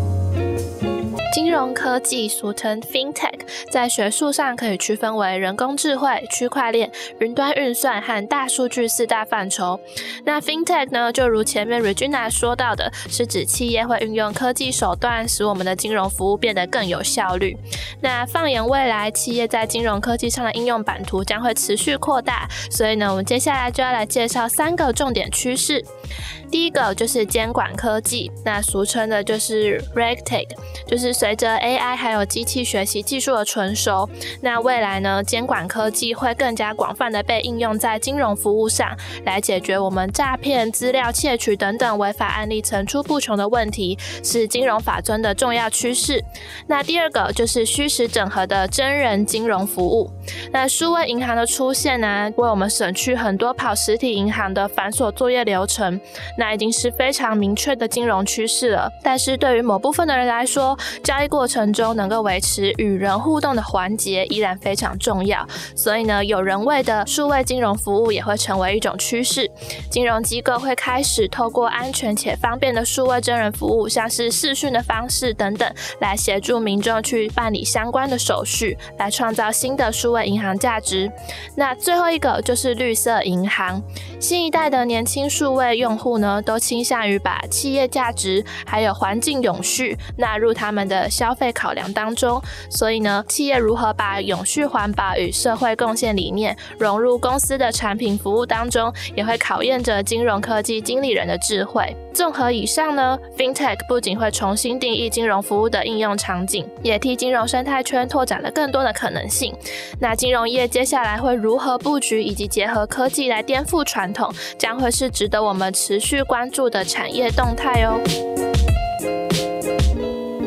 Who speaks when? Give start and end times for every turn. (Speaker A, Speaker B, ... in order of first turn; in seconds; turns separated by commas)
Speaker A: 1.3-25.9, Speaker A: 26.5-118.0